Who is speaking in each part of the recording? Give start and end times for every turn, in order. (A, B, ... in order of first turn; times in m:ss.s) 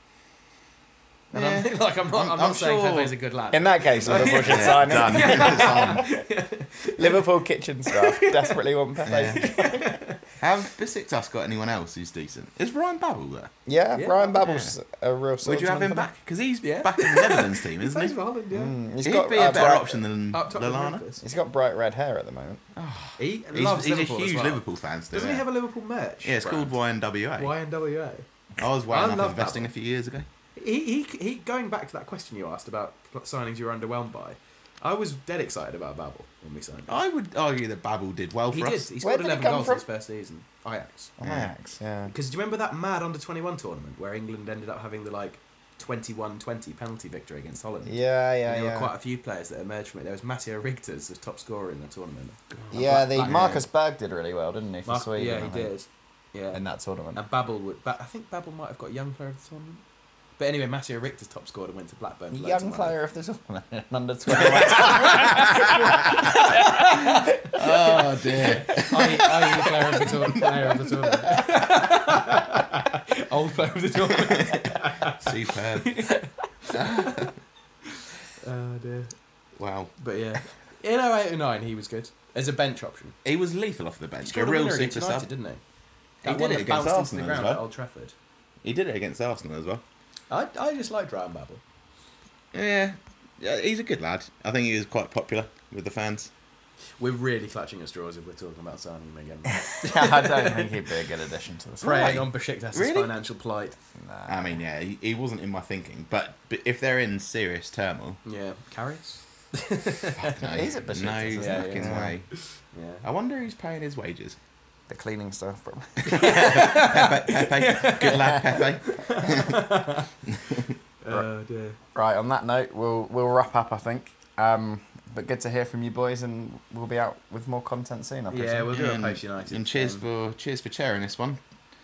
0:01.3-0:03.2 A
0:01.3-0:07.3 B
0:03.5-0:06.2 C
0:04.1-0:06.1 A
0:07.0-0:10.0 C
0:07.9-0:10.4 B
0:09.0-0:09.5 A
0:10.4-0:13.5 A
0:13.7-0:16.1 C
0:14.0-0:14.5 B
0:14.4-0:14.7 A
0:15.4-0:18.2 A
0:16.6-0:18.8 B
0:18.5-0:20.0 C
0:19.0-0:21.1 A
0:19.4-0:21.2 B
0:21.2-0:22.6 C
0:22.8-0:25.5 A
0:23.2-0:26.8 B
0:26.2-0:27.6 A
0:27.4-0:28.3 B
0:28.6-0:30.3 A
0:28.9-0:29.7 B
0:30.6-0:36.9 B
0:36.9-0:38.9 A
0:38.5-0:41.2 B
0:39.0-0:39.8 C
0:41.2-0:42.1 C
0:41.2-0:41.5 A
0:42.1-0:53.6 B
0:47.8-0:48.9 C
0:52.5-0:53.6 A
0:52.7-0:55.7 C
0:54.8-0:56.6 B
0:56.5-0:57.2 C
0:57.2-0:59.8 B
1:00.4-1:03.0 B
1:02.3-1:07.3 C
1:04.4-1:17.3 B
1:04.4-1:06.1 A
1:07.5-1:10.5 A
1:14.2-1:16.1 A
1:16.7-1:17.4 A
1:18.1-1:19.2 B
1:19.6-1:20.0 A
1:20.0-1:23.2 B
1:23.2-1:25.3 A
1:24.2-1:25.6 B
1:26.2-1:28.1 B
1:26.2-1:27.6 A
1:28.6-1:29.8 A
1:30.3-1:31.6 B
1:32.5-1:36.3 A
1:37.0-1:40.8 B
1:39.7-1:42.2 C
1:41.8-1:43.8 B
1:41.8-1:43.1 A
1:44.0-1:44.6 C
1:44.3-1:48.2 A
1:48.2-1:50.4 B
1:50.2-1:52.3 A
1:50.4-1:52.2 C
1:51.4-1:52.1 B
1:52.7-1:53.0 B
1:53.0-1:54.4 A
1:54.9-1:56.9 C
1:56.0-2:00.1 B
1:56.1-1:59.7 A
2:00.3-2:00.7 A
2:01.0-2:01.8 B
2:02.0-2:08.8 C
2:08.3-2:10.1 B
2:08.7-2:11.4 A